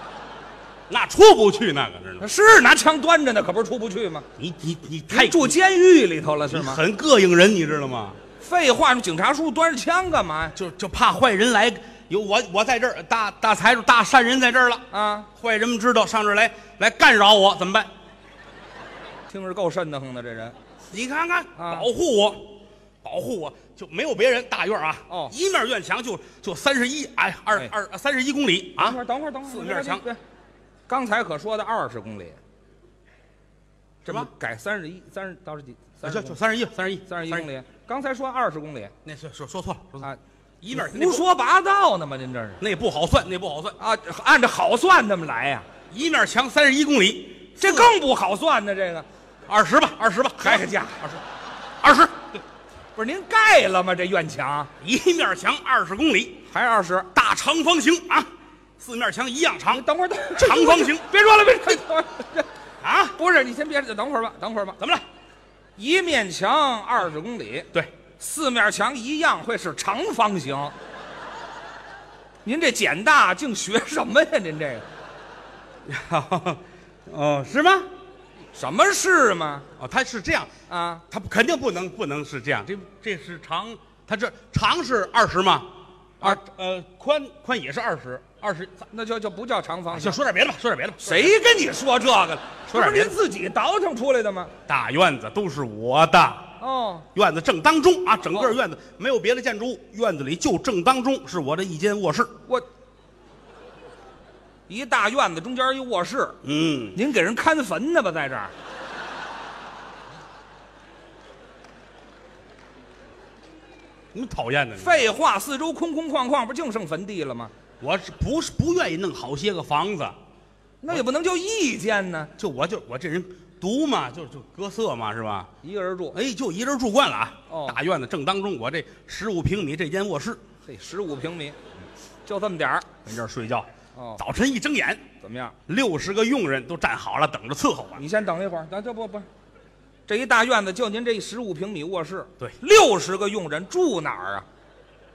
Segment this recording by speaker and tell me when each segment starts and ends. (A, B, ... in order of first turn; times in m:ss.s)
0:00.9-0:02.2 A
0:02.2-0:04.2 B
0:04.4-0:05.6 A
0:05.1-0:06.8 B
0:06.4-0:08.2 A
0:08.4-0:10.5 B
0:10.5-0:17.9 A
0:14.9-0:15.3 B
0:19.3-0:20.6 B
0:20.9-0:30.1 A
0:21.6-0:21.9 B
0:25.1-0:25.3 B
0:28.8-0:30.2 B
0:30.9-0:32.4 B
0:34.0-0:36.4 B
0:36.0-0:37.5 A
0:37.1-0:38.9 B
0:39.0-0:40.1 A
0:40.6-0:41.2 A
0:40.7-0:42.6 B
0:42.6-0:43.8 A
0:43.8-0:45.6 B
0:45.9-0:48.0 A
0:47.6-0:49.1 B
0:49.5-0:51.2 A
0:50.4-0:51.1 B
0:51.8-0:52.4 A
0:52.9-0:54.7 B
0:54.8-0:56.4 A
0:56.5-0:57.1 B
0:57.1-1:01.1 A
0:59.7-1:02.5 B
1:02.8-1:03.2 A
1:03.2-1:04.8 B
1:04.8-1:05.0 A
1:05.8-1:10.7 B
1:12.4-1:14.8 B
1:15.8-1:17.9 A
1:18.5-1:19.7 B
1:19.8-1:20.5 A
1:20.7-1:21.0 B
1:21.1-1:25.7 A
1:26.2-1:28.9 A
1:28.9-1:30.2 B
1:29.9-1:31.4 A
1:31.0-1:34.5 B
1:32.7-1:33.1 A
1:34.7-1:36.5 A
1:36.6-1:37.0 B
1:37.1-1:42.3 A
1:44.7-1:46.4 B
1:46.4-1:47.0 A
1:46.9-1:48.5 B
1:54.1-1:55.0 A
1:54.8-1:57.5 B
1:57.8-2:00.2 A
2:00.8-2:02.3 B
2:02.4-2:05.5 A
2:05.6-2:06.2 B
2:06.1-2:10.4 A
2:07.5-2:07.8 B
2:10.6-2:12.9 B
2:13.0-2:15.0 A
2:13.9-2:14.2 B
2:15.2-2:15.6 B
2:15.7-2:18.0 A
2:18.0-2:19.3 B
2:20.1-2:24.5 B